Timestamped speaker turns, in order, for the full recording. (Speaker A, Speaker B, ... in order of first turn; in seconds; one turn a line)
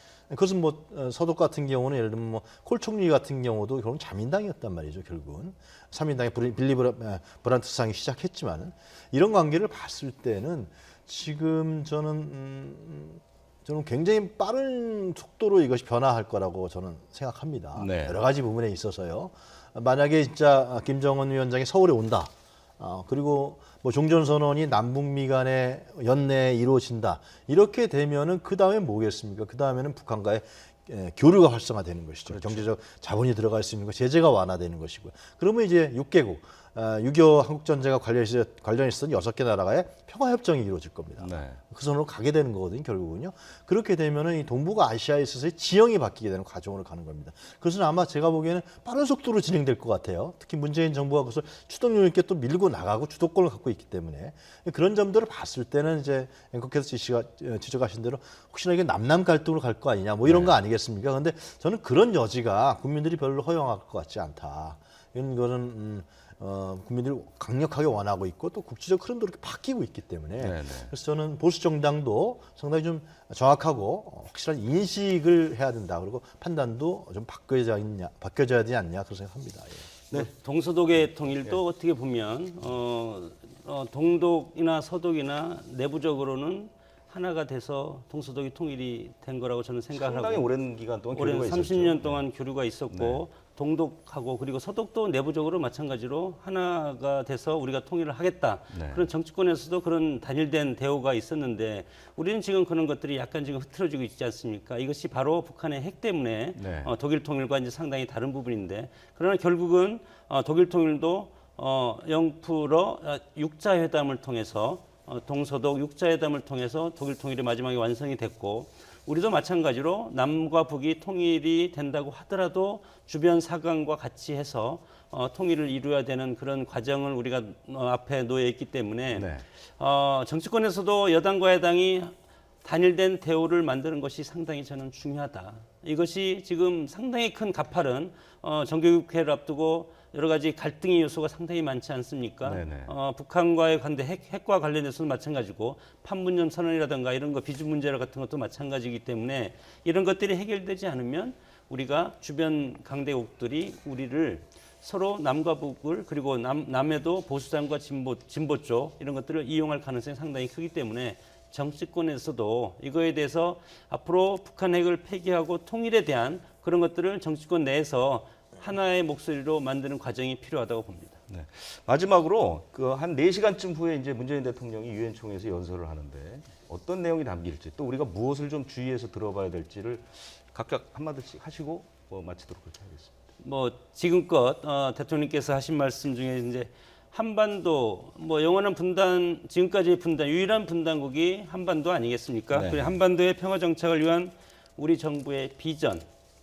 Speaker A: 0.3-79.9
Speaker B: 17.8-18.2
Speaker B: 32.3-32.6
Speaker B: 41.2-41.6
Speaker B: 60.3-60.5
Speaker B: 70.4-70.9
Speaker C: 80.1-90.5
Speaker B: 89.9-92.2
Speaker C: 91.2-171.2
Speaker B: 92.9-93.2
Speaker B: 98.7-99.1
Speaker B: 106.6-106.9
Speaker B: 129.1-129.4
Speaker B: 142.4-142.9
Speaker B: 171.3-183.1
Speaker C: 183.4-196.1
Speaker B: 192.5-193.0